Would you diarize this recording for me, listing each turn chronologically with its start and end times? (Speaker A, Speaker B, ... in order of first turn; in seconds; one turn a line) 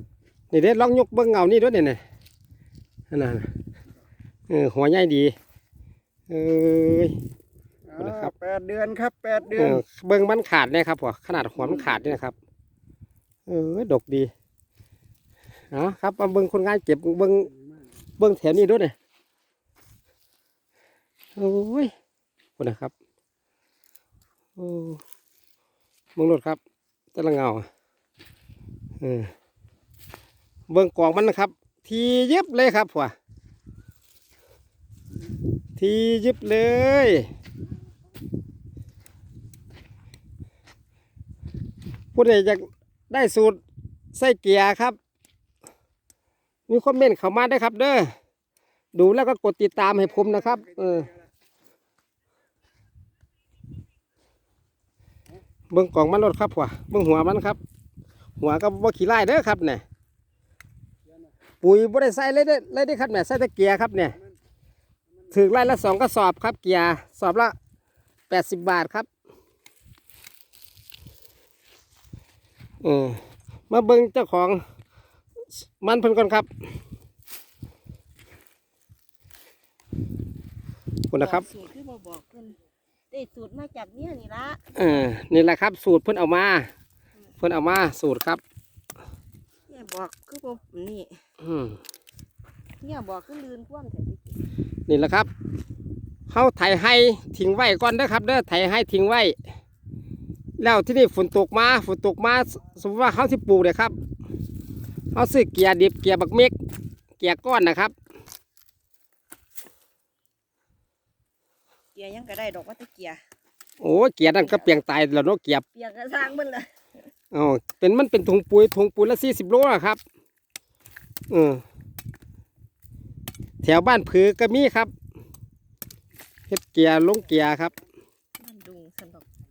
Speaker A: 0.5-2.0
Speaker A: 3.1-3.5
Speaker A: 4.5-5.3
Speaker A: 6.3-7.1
Speaker B: 7.9-9.8
Speaker A: 8.0-8.3
Speaker A: 9.5-12.3
Speaker A: 13.5-14.3
Speaker A: 15.7-17.5
Speaker A: 18.2-18.9
Speaker A: 21.4-21.9
Speaker A: 22.6-22.9
Speaker A: 24.6-25.0
Speaker A: 26.1-26.6
Speaker A: 27.1-27.7
Speaker A: 29.0-29.3
Speaker A: 30.7-33.1
Speaker A: 35.8-37.3
Speaker A: 42.1-43.6
Speaker A: 44.1-45.0
Speaker A: 46.7-48.1
Speaker A: 48.9-51.1
Speaker A: 55.7-57.6
Speaker A: 58.4-59.8
Speaker A: 61.6-64.2
Speaker A: 65.3-67.5
Speaker A: 68.3-69.1
Speaker A: 72.8-74.6
Speaker A: 75.8-76.5
Speaker A: 81.1-81.4
Speaker C: 81.2-82.6
Speaker C: 83.1-84.7
Speaker A: 84.7-86.7
Speaker A: 87.4-88.4
Speaker C: 89.7-91.2
Speaker A: 91.4-91.8
Speaker C: 92.8-94.4
Speaker A: 94.9-95.3
Speaker A: 96.3-99.3
Speaker A: 100.6-103.9
Speaker A: 105.1-106.5
Speaker A: 107.2-107.9
Speaker C: 111.9-113.2
Speaker A: 113.8-115.6
Speaker C: 114.2-114.8
Speaker C: 115.7-116.7
Speaker A: 117.3-120.0
Speaker A: 121.3-121.6
Speaker A: 123.6-124.9
Speaker A: 126.5-127.7
Speaker C: 128.4-129.2